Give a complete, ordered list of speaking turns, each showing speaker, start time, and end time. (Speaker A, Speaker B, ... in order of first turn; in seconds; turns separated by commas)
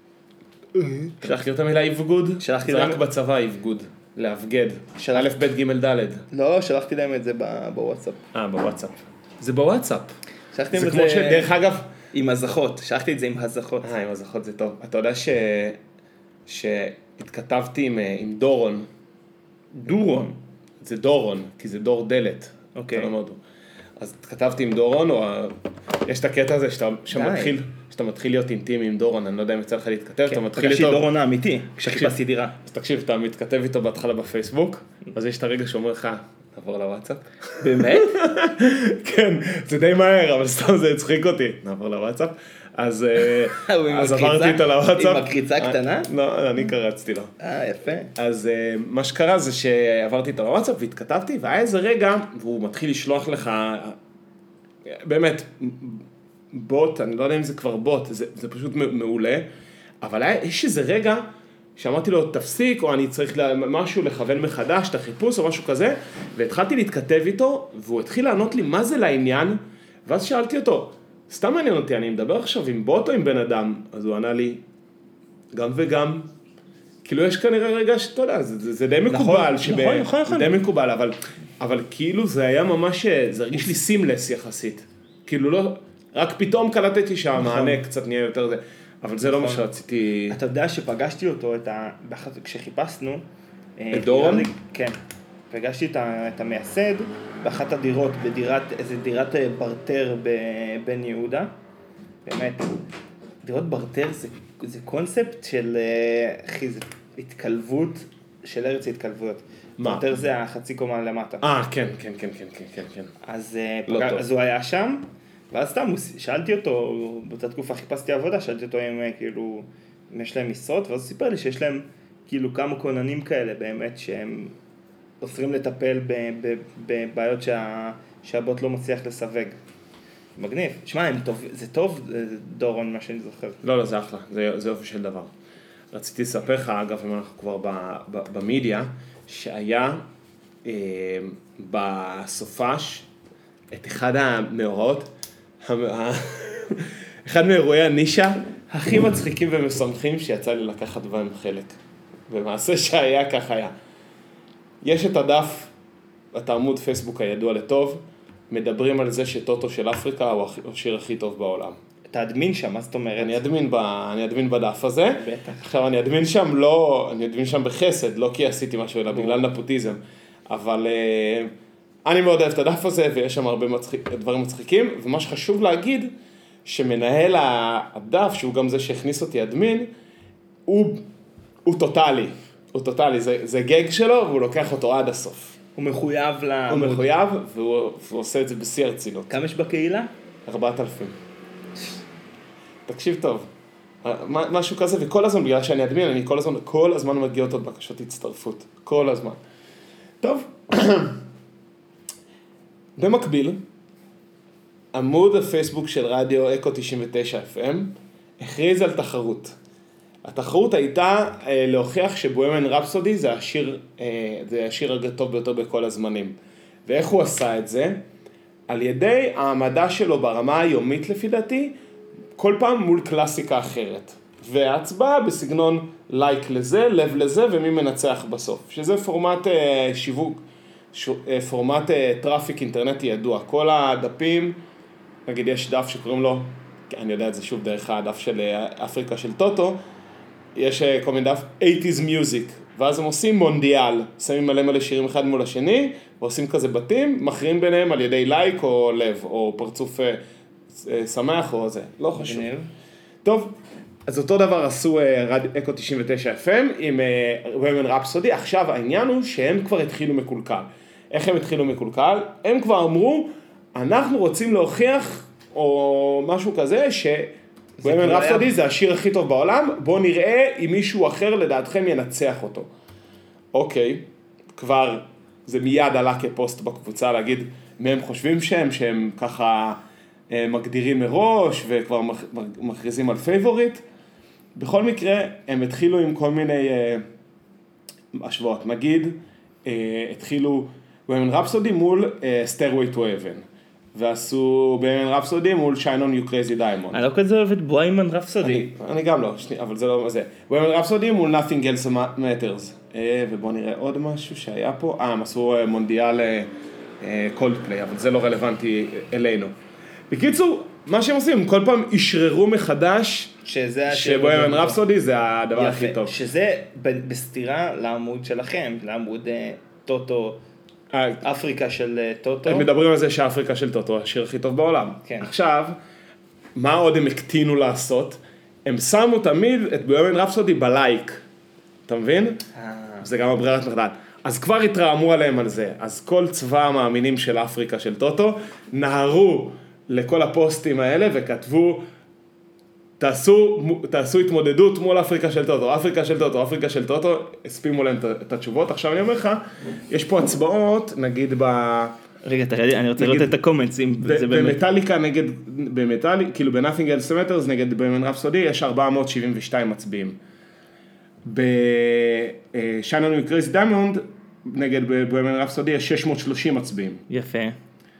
Speaker A: 0.8-6.2, Speaker B: 2.4-3.0, Speaker B: 5.0-5.5, Speaker B: 6.3-8.2, Speaker A: 8.3-10.1, Speaker B: 10.5-11.5, Speaker A: 10.7-11.9, Speaker B: 12.1-13.9, Speaker A: 13.8-15.8, Speaker A: 16.5-18.9, Speaker B: 19.7-20.4, Speaker A: 20.8-23.4, Speaker B: 22.7-23.1, Speaker A: 24.0-31.1, Speaker B: 27.1-27.5, Speaker B: 30.3-32.5, Speaker A: 31.8-47.3, Speaker B: 37.6-38.2, Speaker B: 43.5-46.1, Speaker B: 47.4-48.1, Speaker A: 48.1-54.0, Speaker A: 54.8-59.5, Speaker A: 60.0-74.6, Speaker A: 75.5-76.3, Speaker A: 77.0-90.4, Speaker B: 79.1-80.6, Speaker B: 87.4-87.8, Speaker B: 89.2-89.7, Speaker B: 90.3-93.2, Speaker B: 93.8-95.0, Speaker A: 93.9-94.5, Speaker B: 95.5-101.5, Speaker B: 102.2-102.7, Speaker B: 103.4-111.5, Speaker A: 109.8-110.2, Speaker A: 111.4-113.1, Speaker B: 113.2-124.5, Speaker A: 113.9-114.2, Speaker B: 125.2-129.6, Speaker B: 130.3-133.6, Speaker A: 133.6-135.3, Speaker A: 135.9-140.1, Speaker A: 140.6-143.1, Speaker A: 143.7-151.8, Speaker A: 152.3-153.7, Speaker A: 154.8-155.7, Speaker A: 156.3-161.8, Speaker B: 162.1-163.4, Speaker A: 163.2-171.5, Speaker B: 165.2-165.6, Speaker B: 169.1-169.5, Speaker A: 172.0-176.1, Speaker A: 176.6-179.9, Speaker A: 180.7-181.0, Speaker A: 181.6-185.6, Speaker B: 185.8-187.1, Speaker A: 186.7-189.3, Speaker B: 189.3-190.1, Speaker A: 190.4-191.1, Speaker A: 192.9-193.5, Speaker A: 194.0-199.4, Speaker A: 200.2-201.2, Speaker A: 203.0-203.6, Speaker A: 204.9-209.6, Speaker A: 210.2-216.3, Speaker A: 216.9-218.0, Speaker A: 218.7-221.7, Speaker A: 222.4-234.6, Speaker A: 235.2-239.8, Speaker A: 240.5-250.2, Speaker A: 250.7-252.5, Speaker B: 252.1-252.7, Speaker A: 253.2-272.7, Speaker B: 267.8-268.5, Speaker A: 273.5-279.8, Speaker A: 280.3-283.8, Speaker A: 284.6-287.0, Speaker A: 288.1-297.0, Speaker B: 296.9-298.7, Speaker A: 298.4-309.5, Speaker A: 310.1-313.3, Speaker B: 313.4-314.8, Speaker A: 313.9-316.2, Speaker B: 315.5-320.4, Speaker A: 320.9-321.2, Speaker B: 321.2-322.7, Speaker A: 322.4-325.8, Speaker A: 326.5-331.2, Speaker A: 331.9-332.4, Speaker B: 332.5-333.1, Speaker A: 333.0-341.8, Speaker A: 343.0-351.9, Speaker B: 352.2-354.6, Speaker A: 353.0-353.4, Speaker A: 354.0-360.2, Speaker A: 361.2-367.0, Speaker B: 367.1-367.6